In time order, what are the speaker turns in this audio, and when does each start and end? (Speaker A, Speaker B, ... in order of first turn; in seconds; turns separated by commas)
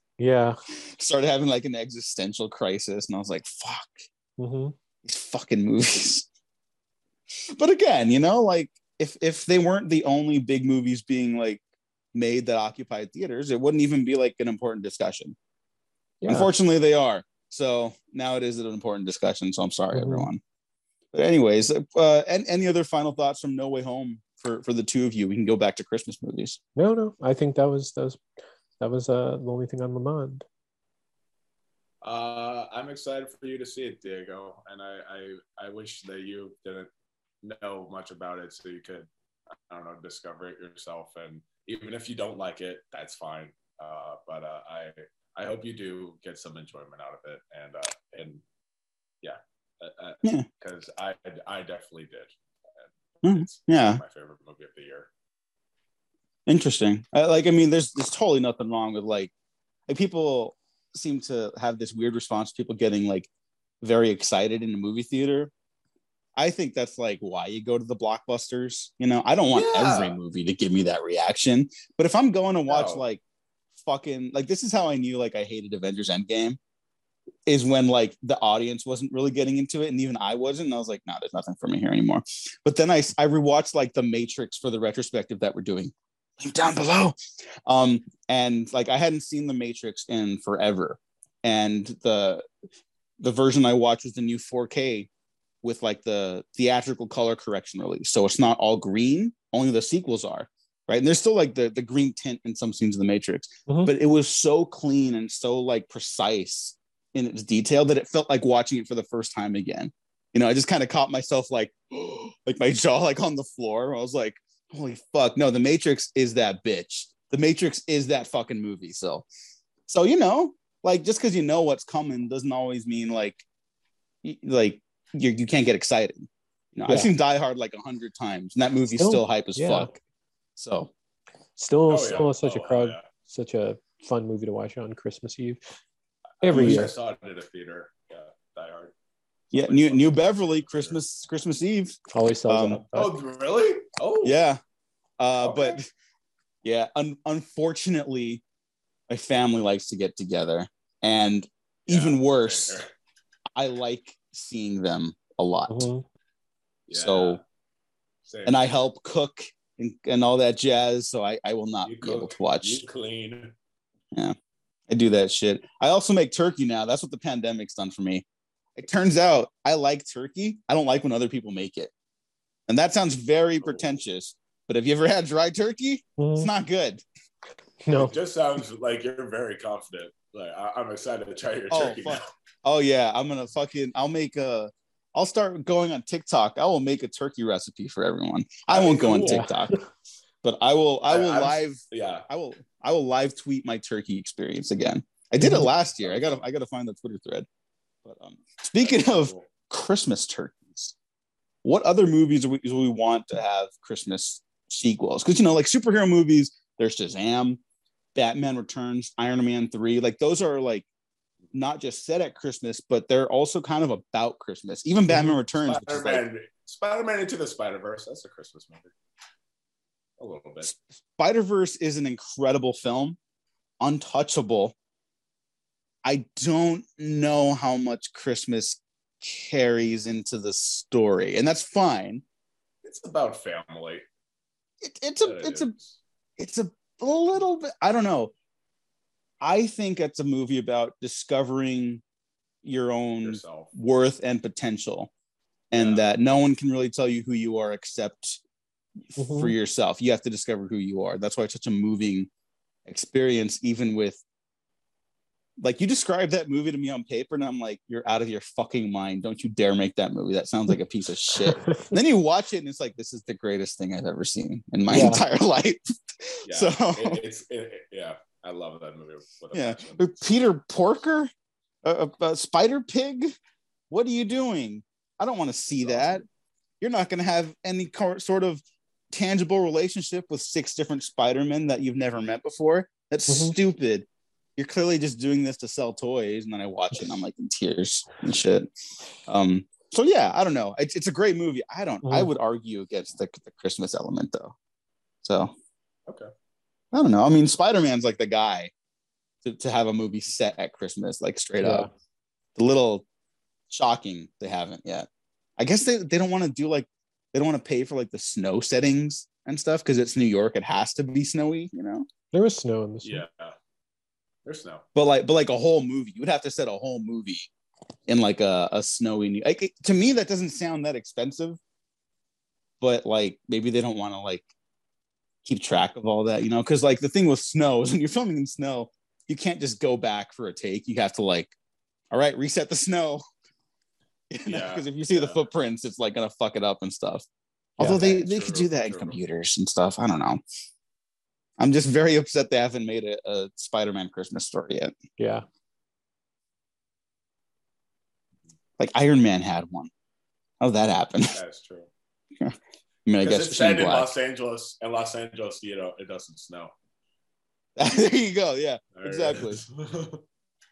Speaker A: 0.2-0.6, Speaker B: 0.8-4.0, Speaker A: 4.4-4.7, Speaker B: 5.0-6.3, Speaker B: 7.5-11.6, Speaker B: 12.1-15.3, Speaker A: 16.2-16.5, Speaker B: 16.3-20.4, Speaker A: 19.9-20.3, Speaker B: 21.1-26.6, Speaker A: 26.8-28.2, Speaker A: 28.8-30.4, Speaker C: 32.0-36.9, Speaker C: 37.4-39.1, Speaker C: 39.7-48.4, Speaker C: 49.2-55.1, Speaker B: 53.2-54.0, Speaker B: 56.5-59.3, Speaker B: 59.9-63.3, Speaker B: 63.8-65.5, Speaker B: 66.4-73.2, Speaker C: 69.5-70.2, Speaker C: 72.7-73.0, Speaker B: 73.8-76.6, Speaker B: 77.5-92.5, Speaker B: 93.2-95.1, Speaker B: 95.6-119.3, Speaker A: 103.7-103.9, Speaker B: 119.9-123.4, Speaker B: 124.2-130.0, Speaker A: 129.0-129.9, Speaker B: 130.6-130.9, Speaker A: 131.6-135.6, Speaker C: 131.9-133.0, Speaker C: 136.4-138.9, Speaker A: 136.4-136.9, Speaker B: 136.5-136.9, Speaker C: 139.5-141.0, Speaker B: 139.5-142.8, Speaker A: 142.1-143.1, Speaker C: 142.9-144.4, Speaker B: 144.2-144.6, Speaker B: 145.2-145.9, Speaker C: 145.4-145.8, Speaker B: 146.6-148.4, Speaker B: 149.1-152.8, Speaker C: 151.9-152.9, Speaker B: 153.5-155.9, Speaker A: 155.7-156.0, Speaker C: 156.9-157.4, Speaker B: 156.9-157.4, Speaker C: 158.2-158.7, Speaker B: 158.4-162.8, Speaker C: 161.8-163.5, Speaker B: 164.9-168.2, Speaker B: 168.8-171.9, Speaker B: 172.7-177.0, Speaker A: 176.2-176.5, Speaker A: 177.8-178.1, Speaker C: 177.9-182.3, Speaker B: 181.7-189.8, Speaker C: 188.7-189.5, Speaker A: 189.2-189.8, Speaker B: 190.4-197.5, Speaker C: 191.1-192.2, Speaker A: 195.4-195.7, Speaker C: 196.0-196.4, Speaker B: 198.0-200.9, Speaker C: 198.8-199.5, Speaker B: 201.6-207.6, Speaker B: 208.1-210.9, Speaker B: 211.5-216.2, Speaker A: 215.1-215.4, Speaker C: 215.7-218.9, Speaker C: 220.2-220.7, Speaker B: 220.6-223.2, Speaker B: 223.8-224.7, Speaker B: 226.0-232.2, Speaker C: 232.8-234.0, Speaker B: 234.8-235.7, Speaker C: 235.2-236.0, Speaker B: 236.4-238.3, Speaker B: 239.4-242.0, Speaker B: 242.6-245.1, Speaker C: 243.2-243.7, Speaker B: 245.7-248.4, Speaker C: 245.7-246.1, Speaker B: 249.2-252.3, Speaker A: 249.2-249.5, Speaker B: 252.8-254.2, Speaker B: 255.6-267.2, Speaker A: 264.9-265.2, Speaker C: 266.5-270.0, Speaker B: 269.5-271.3, Speaker B: 271.8-273.3, Speaker B: 273.9-276.2, Speaker C: 275.8-276.2, Speaker B: 276.8-288.7, Speaker A: 283.3-283.5, Speaker B: 289.3-294.5, Speaker A: 292.0-292.3, Speaker B: 295.2-295.5, Speaker B: 296.9-298.7, Speaker B: 299.4-301.9, Speaker A: 301.6-301.9, Speaker B: 302.5-303.0, Speaker B: 303.7-305.1, Speaker B: 305.6-312.1, Speaker A: 312.3-313.2, Speaker C: 313.0-313.6, Speaker C: 314.4-314.8, Speaker B: 314.9-317.5, Speaker B: 318.1-321.6, Speaker B: 322.8-324.5, Speaker B: 325.4-331.5, Speaker B: 332.1-333.2, Speaker B: 334.3-337.2, Speaker C: 334.5-335.4, Speaker B: 337.8-340.4, Speaker C: 337.8-339.2, Speaker B: 341.6-344.9, Speaker A: 345.2-345.4, Speaker B: 348.8-349.9, Speaker B: 350.6-351.4, Speaker C: 351.3-351.9, Speaker B: 352.4-354.1, Speaker C: 353.2-356.7, Speaker B: 357.8-359.6, Speaker C: 358.9-360.2